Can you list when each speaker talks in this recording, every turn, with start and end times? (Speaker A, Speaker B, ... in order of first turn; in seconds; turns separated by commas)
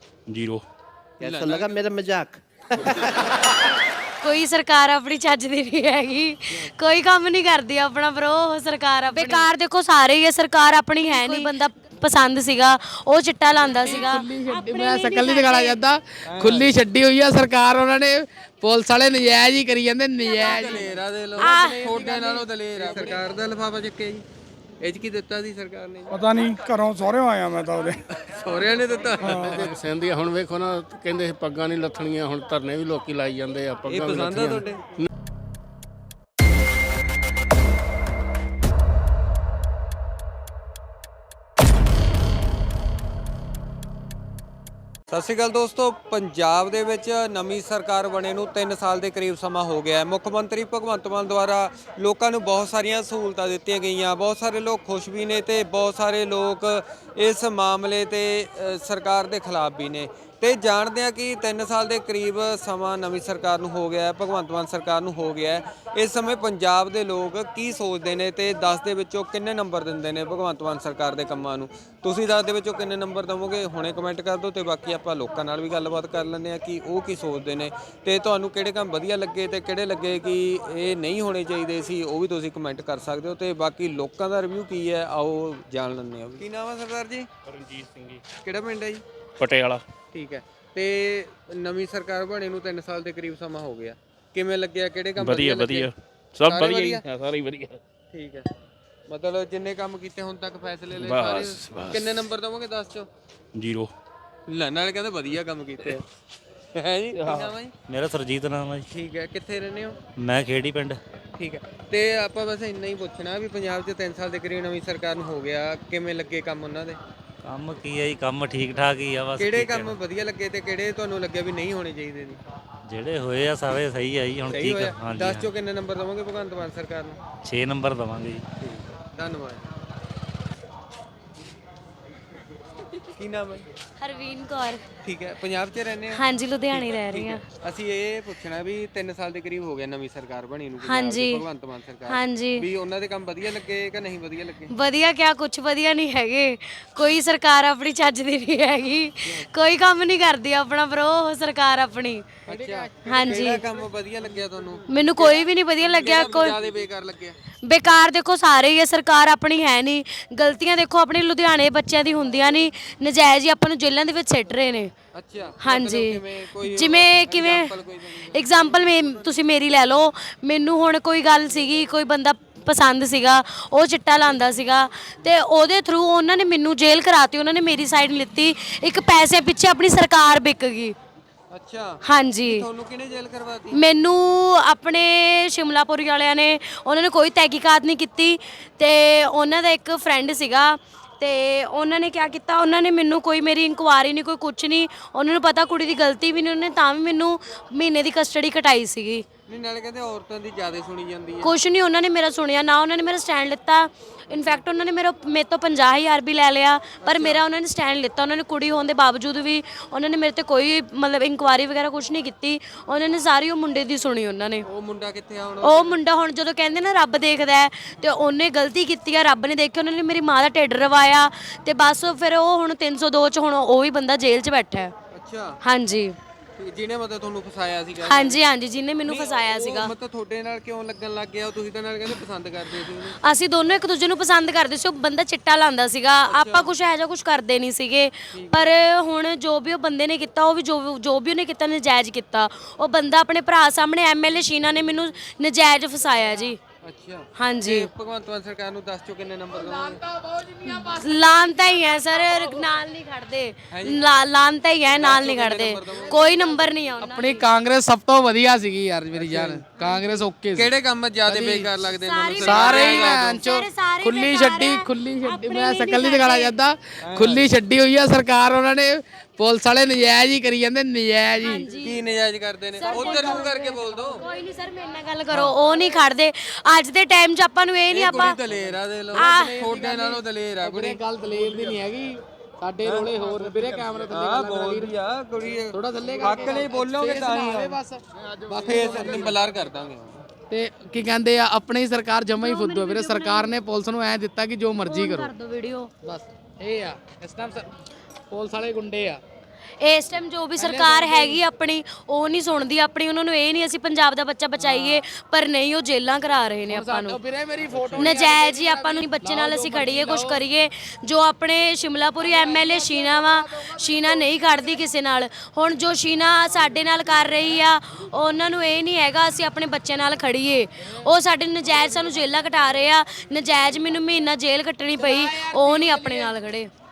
Speaker A: 0.3-0.6, Speaker B: 1.2-1.8, Speaker C: 1.2-3.2, Speaker D: 4.2-15.8, Speaker E: 11.1-11.4, Speaker E: 13.7-23.2, Speaker B: 16.2-16.8, Speaker B: 20.3-24.2, Speaker D: 21.4-21.9, Speaker B: 24.8-26.1, Speaker F: 26.1-28.0, Speaker B: 28.1-29.7, Speaker F: 29.2-29.7, Speaker G: 29.7-34.6, Speaker B: 33.9-34.8, Speaker B: 45.1-87.3, Speaker A: 87.5-88.2, Speaker B: 88.4-89.0, Speaker A: 89.4-89.8, Speaker B: 90.1-95.9, Speaker A: 95.2-97.8, Speaker B: 96.4-97.0, Speaker B: 98.1-98.5, Speaker B: 99.1-103.1, Speaker A: 101.0-102.2, Speaker A: 103.5-103.9, Speaker B: 104.5-106.0, Speaker B: 106.7-107.7, Speaker A: 107.2-107.5, Speaker H: 107.9-108.8, Speaker B: 108.9-110.0, Speaker H: 110.2-111.0, Speaker B: 111.4-117.0, Speaker H: 117.4-120.0, Speaker B: 119.4-122.4, Speaker H: 122.8-125.5, Speaker B: 124.5-127.2, Speaker H: 127.4-128.4, Speaker B: 128.6-129.7, Speaker B: 133.2-133.6, Speaker D: 134.0-134.8, Speaker B: 135.0-144.7, Speaker D: 136.1-137.4, Speaker D: 140.8-141.4, Speaker D: 142.1-142.6, Speaker D: 144.7-152.3, Speaker B: 152.5-157.3, Speaker E: 152.5-153.2, Speaker D: 153.0-153.6, Speaker D: 154.9-156.6, Speaker D: 157.6-164.9, Speaker B: 165.1-169.2, Speaker D: 165.6-167.7, Speaker D: 168.3-180.9, Speaker B: 181.5-183.8, Speaker D: 182.0-182.6, Speaker D: 183.7-199.2, Speaker B: 199.5-201.5, Speaker D: 201.4-214.6, Speaker B: 204.3-204.6, Speaker B: 207.0-207.4, Speaker B: 214.7-216.0, Speaker D: 215.6-224.9, Speaker B: 225.1-225.6, Speaker D: 225.6-226.2, Speaker B: 226.6-228.4, Speaker D: 228.1-229.9, Speaker B: 229.1-233.2, Speaker D: 233.2-246.6, Speaker B: 236.3-236.7, Speaker B: 238.3-238.6, Speaker B: 246.8-250.0, Speaker D: 247.4-247.9, Speaker E: 249.7-251.3, Speaker D: 250.6-257.4, Speaker B: 253.7-254.0, Speaker B: 254.9-256.3, Speaker E: 257.0-261.7, Speaker B: 259.1-259.6, Speaker B: 260.5-263.3, Speaker D: 262.0-266.6, Speaker E: 262.4-271.7, Speaker B: 267.0-267.5, Speaker D: 271.4-272.0, Speaker B: 271.8-274.2, Speaker D: 272.8-278.4, Speaker B: 277.9-281.7, Speaker D: 279.1-279.5, Speaker E: 279.1-284.9, Speaker B: 282.8-283.4, Speaker B: 284.1-287.8, Speaker E: 285.6-289.4, Speaker B: 288.6-290.3, Speaker E: 290.5-295.3, Speaker D: 292.4-293.6, Speaker D: 294.8-295.9, Speaker E: 296.0-297.7, Speaker E: 298.3-299.2, Speaker D: 299.8-307.2, Speaker E: 300.6-301.4, Speaker E: 304.6-305.1, Speaker E: 306.7-310.4, Speaker D: 307.8-326.7, Speaker E: 312.2-314.3, Speaker E: 324.9-326.4